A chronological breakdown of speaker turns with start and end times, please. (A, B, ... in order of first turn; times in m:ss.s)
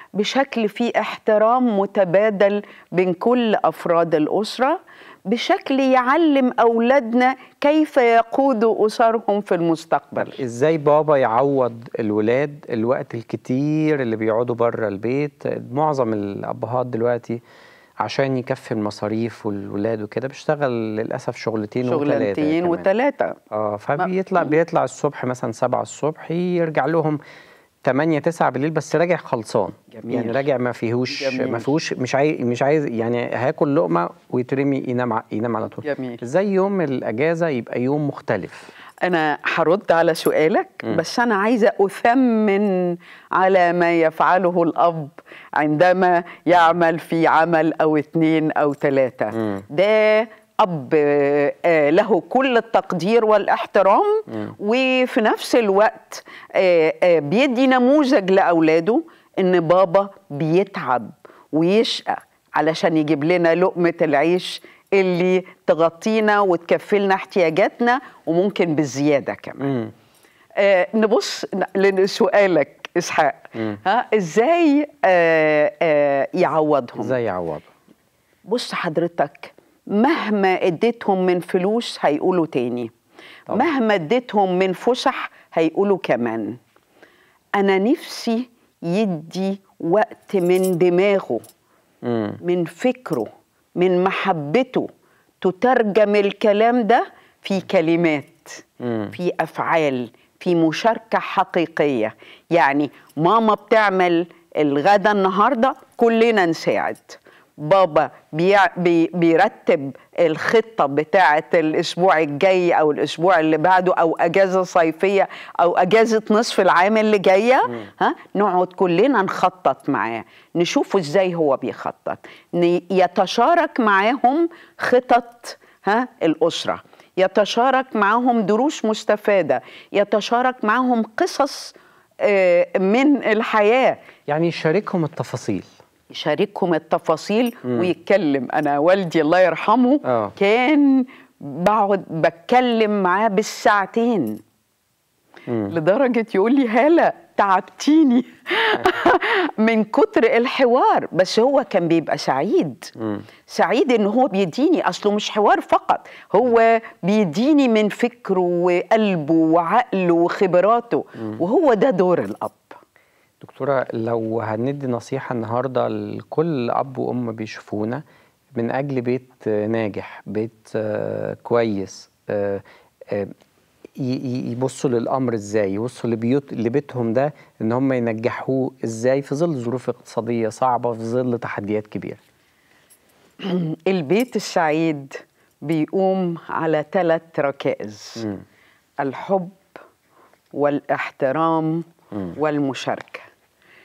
0:00.2-0:04.8 A
0:05.3-0:10.4 A
0:10.2-0:17.4 B
0:18.0-0:22.9 B
0:21.8-0:23.4 A
0:23.5-0:27.2 B
0:27.8-0:38.7 B
0:29.9-0:30.4 A
0:31.1-0:31.7 A
0:35.8-0:36.2 A
0:39.0-1:09.7 A
1:09.6-1:09.9 B
1:10.6-1:17.2 A
1:17.0-1:17.7 B
1:18.5-1:22.9 A
1:23.5-1:26.6 A
1:27.6-1:31.4 A
1:32.0-1:32.4 B
1:32.4-1:34.9 A
1:35.4-2:14.0 A
1:38.8-1:39.1 B
2:14.3-2:15.7 B
2:16.1-2:24.4 A
2:20.1-2:20.3 B
2:25.5-2:25.7 B
2:25.7-2:32.9 A
2:33.5-2:42.8 A
2:43.4-2:48.0 B
2:48.6-2:53.3 B
2:54.0-3:02.2 B
3:03.4-3:08.3 A
3:09.0-3:09.7 A
3:10.5-3:13.3 A